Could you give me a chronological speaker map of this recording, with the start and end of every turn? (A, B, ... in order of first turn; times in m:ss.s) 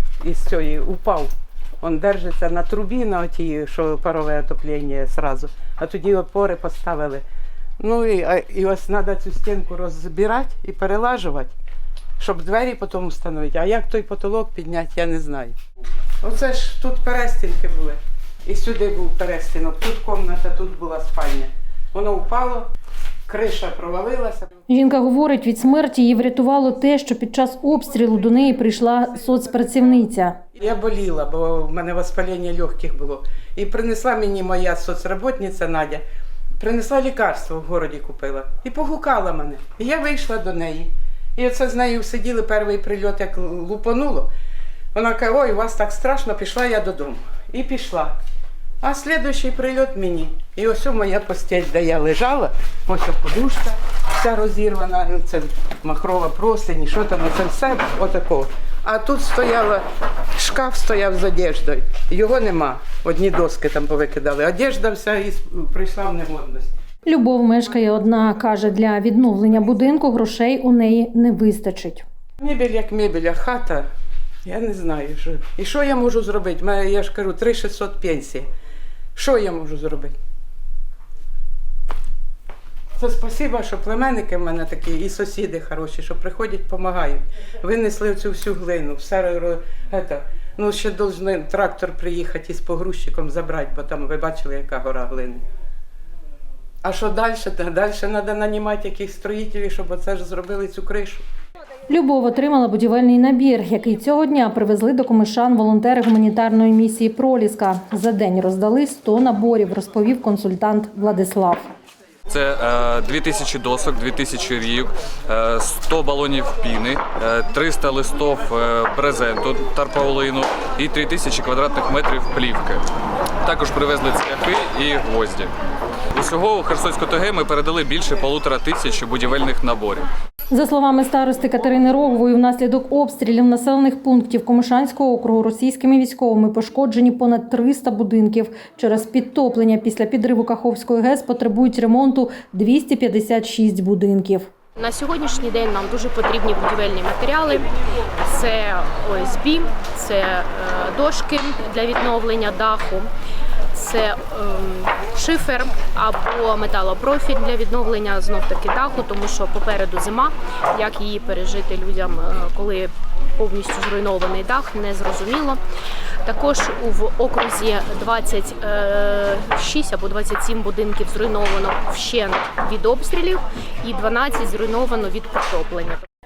0:00.2-0:07.2 A
0:07.8-0:11.5 A
0:12.2-0:15.6 A
0:16.2-0:22.7 A
0:23.3-0:24.5 A
0:24.7-0:30.4 B
0:30.5-0:36.0 A
0:36.6-0:44.3 A
0:44.9-0:48.1 A
0:48.8-1:06.7 A
1:07.1-1:12.0 B
1:12.4-1:13.9 A
1:14.4-1:18.5 A
1:19.2-1:20.2 A
1:23.0-1:35.4 A
1:36.8-1:41.2 A
1:41.9-1:51.7 B
1:52.3-2:02.8 C
2:03.4-2:05.5 C
2:06.1-2:10.1 C
2:10.5-2:24.5 B
2:24.8-2:27.7 D
2:28.2-2:33.1 D
2:33.7-2:45.6 D
2:46.2-2:56.0 D